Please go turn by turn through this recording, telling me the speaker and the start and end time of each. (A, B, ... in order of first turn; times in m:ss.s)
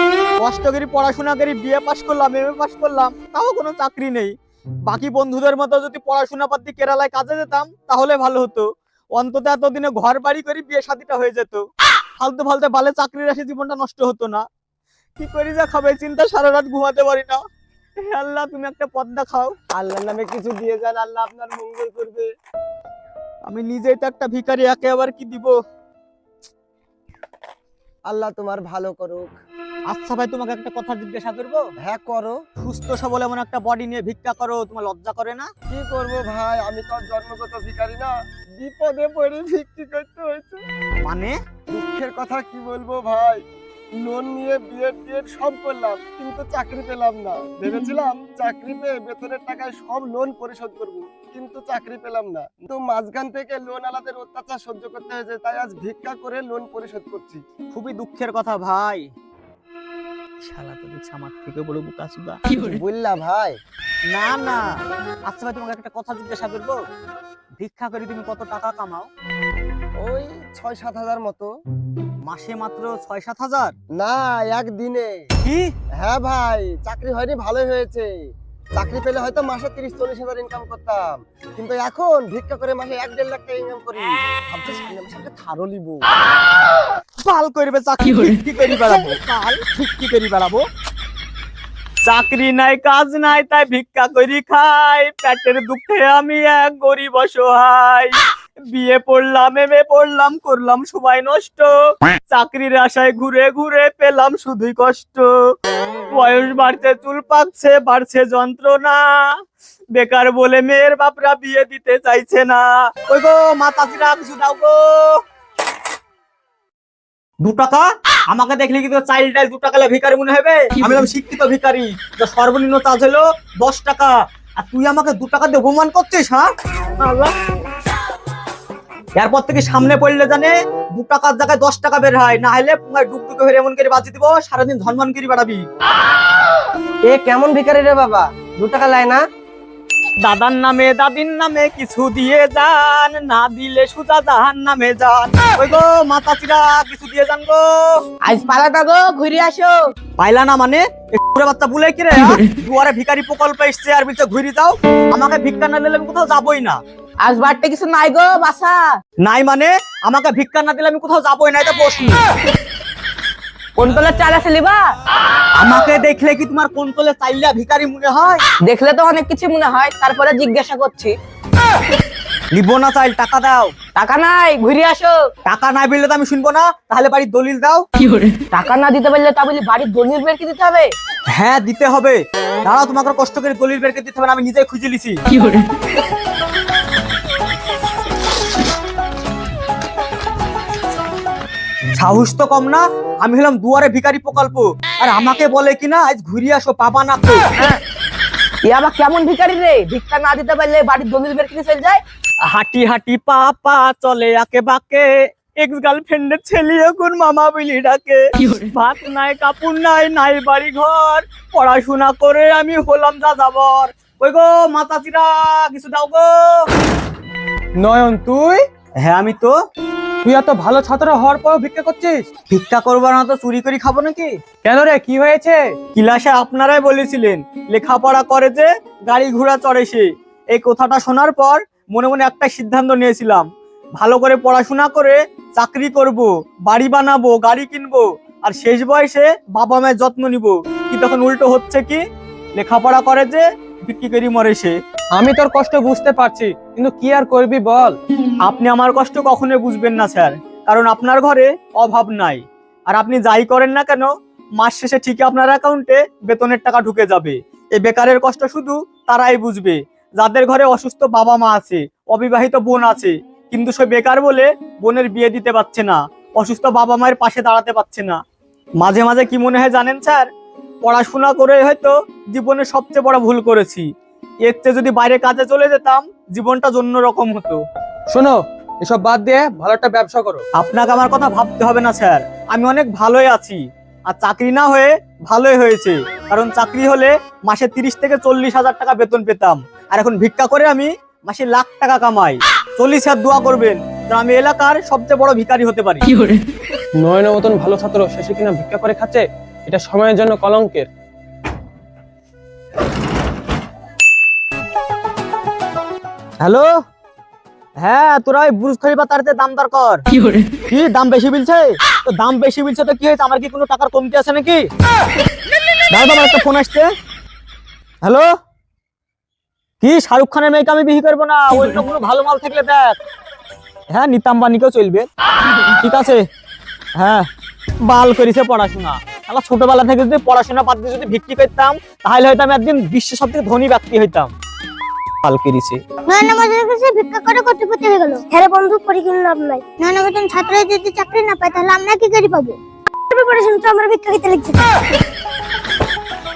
0:00.4-0:04.3 A
0:04.8-0:11.6 A
0:12.2-0:14.4 A
0:15.2-0:17.4 A
0:18.1-0:19.5 A
0:19.7-0:22.3 B
0:23.5-0:25.5 A
0:28.1-0:29.3 B
0:29.9-0:31.6 A
0:31.8-0:32.4 B
0:32.6-0:35.5 A
0:35.7-0:40.6 B
0:41.0-0:41.4 A
0:41.7-0:43.4 B
0:44.0-0:57.4 B
0:57.7-0:59.1 A
1:00.4-1:02.4 A
1:02.5-1:03.6 B
1:04.1-1:04.6 A
1:05.3-1:06.8 A
1:07.6-1:09.1 A
1:10.0-1:11.5 B
1:12.3-1:13.7 A
1:14.0-1:15.2 B
1:15.4-1:15.7 A
1:16.0-1:18.1 B
1:18.8-1:26.1 B
1:27.2-1:30.6 A
1:32.0-1:38.2 A
1:38.7-1:41.7 A
1:42.3-1:45.3 A
1:46.1-1:49.4 A
1:50.0-1:55.2 A
1:57.4-2:06.5 A
2:07.0-2:07.3 A
2:09.2-2:15.6 A
2:17.1-2:19.2 B
2:20.2-2:28.0 A
2:28.2-2:29.9 C
2:30.2-2:36.8 A
2:37.2-2:39.0 C
2:39.2-2:42.2 A
2:43.8-2:44.9 C
2:45.6-2:48.4 A
2:48.6-2:51.2 C
2:52.5-2:53.7 A
2:54.0-2:55.3 C
2:55.5-2:57.8 A
2:58.5-3:01.0 C
3:01.3-3:05.2 A
3:12.0-3:17.5 A
3:18.6-3:22.0 C
3:22.5-3:36.7 A
3:37.8-3:38.6 D
3:39.0-3:39.6 A
3:40.2-3:42.2 D
3:42.5-3:44.3 A
3:44.6-3:45.7 D
3:46.0-3:53.5 A
3:54.0-4:02.0 A
4:02.6-4:04.8 A
4:05.2-4:08.0 D
4:08.4-4:28.2 A
4:28.8-4:30.3 A
4:30.8-4:33.9 A
4:34.4-4:37.6 A
4:38.1-4:40.4 D
4:40.6-4:56.1 A
4:57.0-5:00.9 D
5:06.4-5:06.7 A
5:07.8-5:10.0 A
5:10.7-5:14.7 A
5:15.9-5:16.9 A
5:19.8-5:23.0 A
5:23.9-5:25.1 A
5:25.8-5:26.2 A
5:27.0-5:27.3 A
5:27.9-5:34.3 A
5:35.2-5:35.8 A
5:36.1-5:42.6 E
5:43.1-5:44.7 E